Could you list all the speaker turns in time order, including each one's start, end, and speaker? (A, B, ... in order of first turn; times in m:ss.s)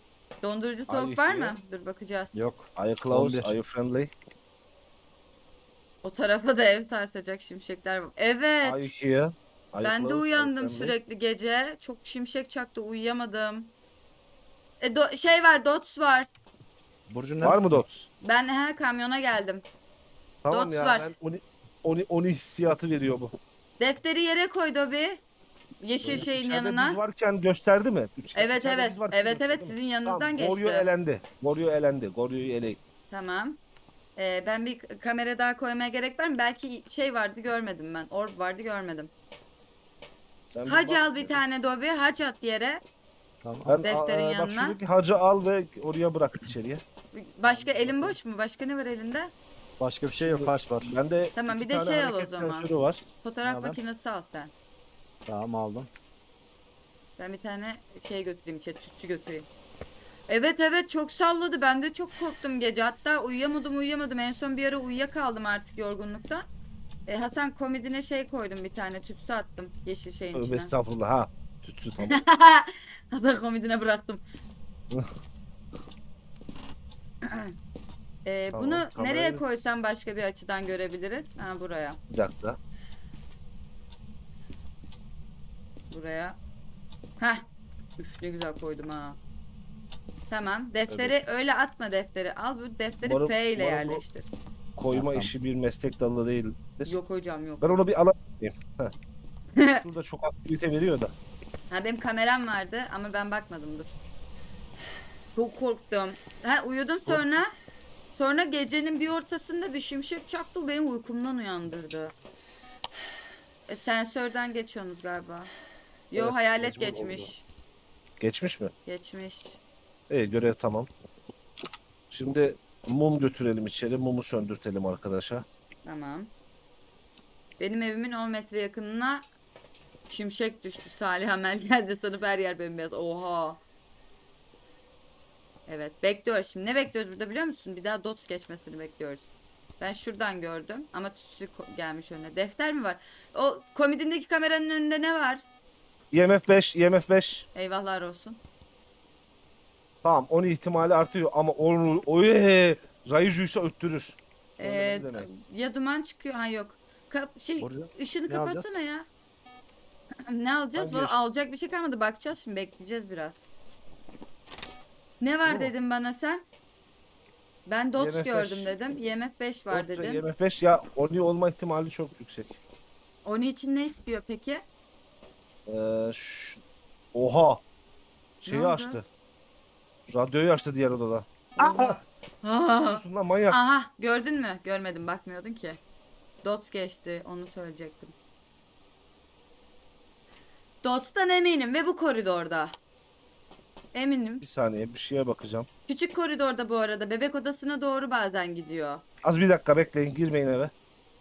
0:00.4-0:02.5 A
0:00.9-0:01.6 B
0:02.3-0:03.5 C
0:02.8-0:04.1 B
0:06.0-0:08.9 A
0:08.6-0:10.9 B
0:09.8-0:13.7 A
0:14.8-0:16.3 A
0:17.1-0:17.8 C
0:17.4-0:18.0 B
0:18.2-0:19.6 A
0:20.4-0:23.3 B
0:20.5-0:21.1 A
0:23.8-0:25.2 A
0:25.8-0:27.0 A
0:26.0-0:26.3 C
0:26.1-0:32.8 B
0:28.3-0:30.9 A
0:33.1-0:33.6 A
0:34.2-0:39.1 A
0:40.5-0:41.4 B
0:40.6-0:42.8 A
0:43.4-0:43.8 C
0:43.7-0:46.8 B
0:43.8-0:44.8 A
0:47.1-0:49.3 A
0:47.4-0:48.2 C
0:49.8-0:50.9 C
0:50.2-0:53.0 B
0:51.3-0:52.7 A
0:53.2-0:54.5 A
0:53.4-0:53.8 C
0:55.2-0:55.9 C
0:57.2-0:59.5 A
1:00.3-1:06.4 A
1:07.1-1:10.7 A
1:10.3-1:12.2 B
1:12.1-1:14.2 A
1:17.2-1:17.5 A
1:18.2-1:22.0 A
1:18.5-1:19.6 B
1:22.1-1:22.6 B
1:25.9-1:26.4 A
1:27.2-1:27.4 A
1:28.0-1:29.2 A
1:30.3-1:34.3 A
1:30.9-1:31.1 C
1:33.0-1:34.0 B
1:34.8-1:37.0 B
1:34.9-1:35.3 C
1:36.8-1:37.8 A
1:37.6-1:38.9 B
1:39.6-1:39.8 A
1:39.7-1:41.1 B
1:41.7-1:44.0 A
1:45.3-1:47.5 A
1:48.1-1:52.1 A
1:53.7-1:55.5 A
1:56.1-1:57.4 A
1:56.1-1:57.3 B
1:58.2-1:58.7 B
1:58.8-1:59.6 A
2:00.1-2:00.9 B
2:02.1-2:05.4 B
2:05.8-2:06.3 A
2:07.6-2:09.2 A
2:10.1-2:13.6 A
2:15.7-2:25.4 A
2:26.1-2:27.4 B
2:27.5-2:28.4 A
2:30.0-2:35.3 B
2:34.6-2:39.1 A
2:37.6-2:38.8 C
2:40.3-2:43.5 A
2:40.8-2:41.2 B
2:45.2-2:46.4 A
2:45.4-2:45.7 B
2:47.6-2:50.2 A
2:48.0-2:48.8 B
2:49.7-2:52.6 B
2:53.2-2:54.6 A
2:55.7-2:56.6 B
2:57.1-2:57.6 B
2:58.4-2:59.0 B
2:58.4-2:59.0 A
3:00.1-3:02.0 B
3:01.6-3:05.8 A
3:02.9-3:03.6 B
3:06.4-3:08.1 A
3:10.8-3:12.8 A
3:13.9-3:14.4 A
3:14.4-3:15.7 B
3:15.9-3:19.0 A
3:19.2-3:20.7 B